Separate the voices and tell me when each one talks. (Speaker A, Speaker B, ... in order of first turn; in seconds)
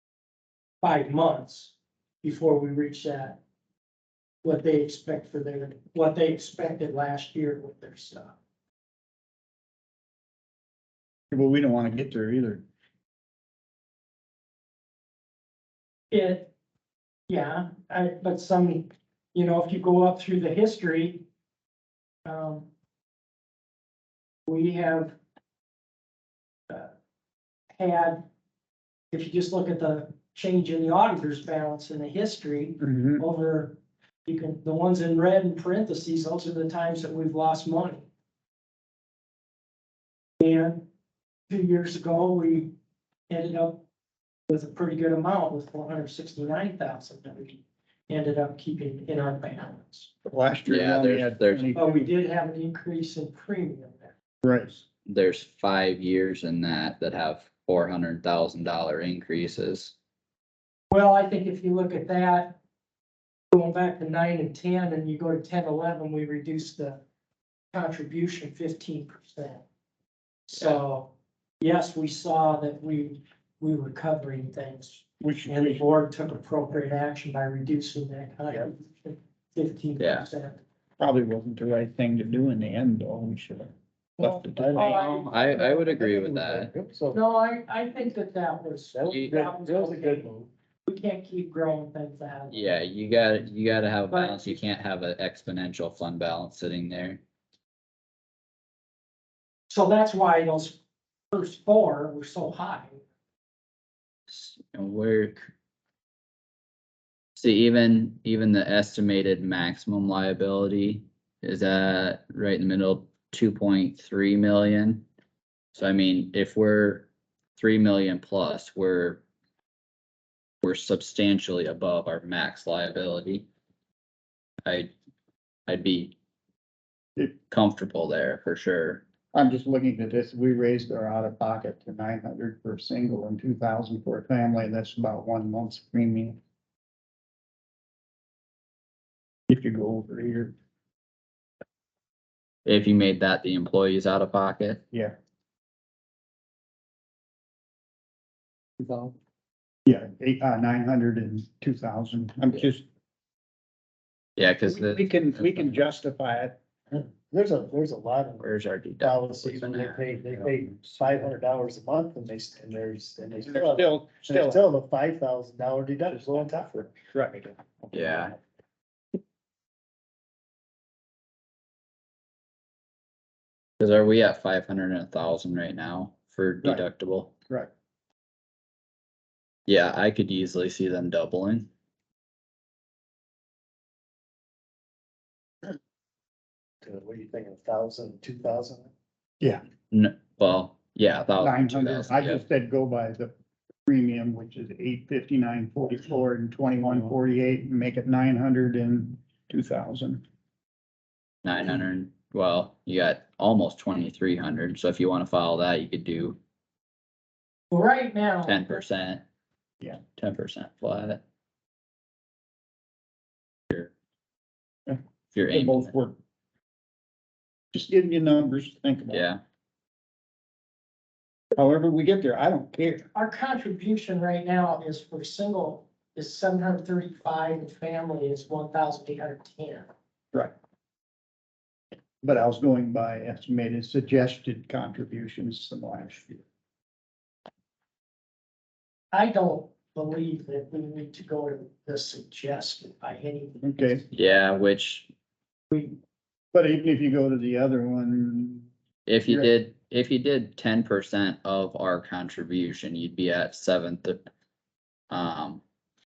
Speaker A: 0.8-3.4, 4.4-8.3, 16.1-16.5, 17.3-21.2, 22.2-22.7, 24.4-25.1, 27.7-28.2, 29.1-38.1, 40.4-40.9, 41.5-42.7, 43.3-43.8, 44.5-50.1, 51.7-54.1, 60.9-62.6, 63.5-67.0, 67.7-69.6, 70.5-80.6, 84.2-85.8, 87.1-90.3, 90.8-92.7, 94.1-94.6, 99.7-100.8, 101.3-103.0, 207.7-208.8, 223.1-229.9, 239.1-243.6
Speaker B: 11.3-12.6, 32.8-33.2, 50.2-52.1, 54.4-54.8, 75.2-75.8, 81.0-84.9, 129.3-136.4, 139.5-140.5, 149.8-152.8, 154.7-156.6, 163.4-164.6, 167.1-167.5, 191.4-193.3, 193.8-200.2, 215.5-216.2, 217.7-219.2, 221.6-223.1, 232.2-236.4, 243.6-244.0, 246.5-248.7
Speaker C: 50.6-51.7, 55.0-59.9, 80.0-80.3, 84.8-86.7, 89.1-89.4, 92.5-97.2, 104.3-105.5, 107.3-115.0, 115.7-119.2, 120.6-123.5, 124.6-124.9, 125.7-126.1, 127.5-129.0, 142.6-144.8, 154.4-155.8, 158.4-160.5, 167.9-168.3, 173.8-177.3, 179.7-181.7, 189.9-192.4, 201.4-206.4, 208.4-209.2, 210.2-211.2, 215.3-215.9, 219.1-219.4, 244.1-245.1, 249.1-254.2, 255.1-255.6
Speaker D: 84.2-87.2, 88.9-90.5, 148.8-149.1, 156.9-158.5, 159.0-167.0, 186.8-188.9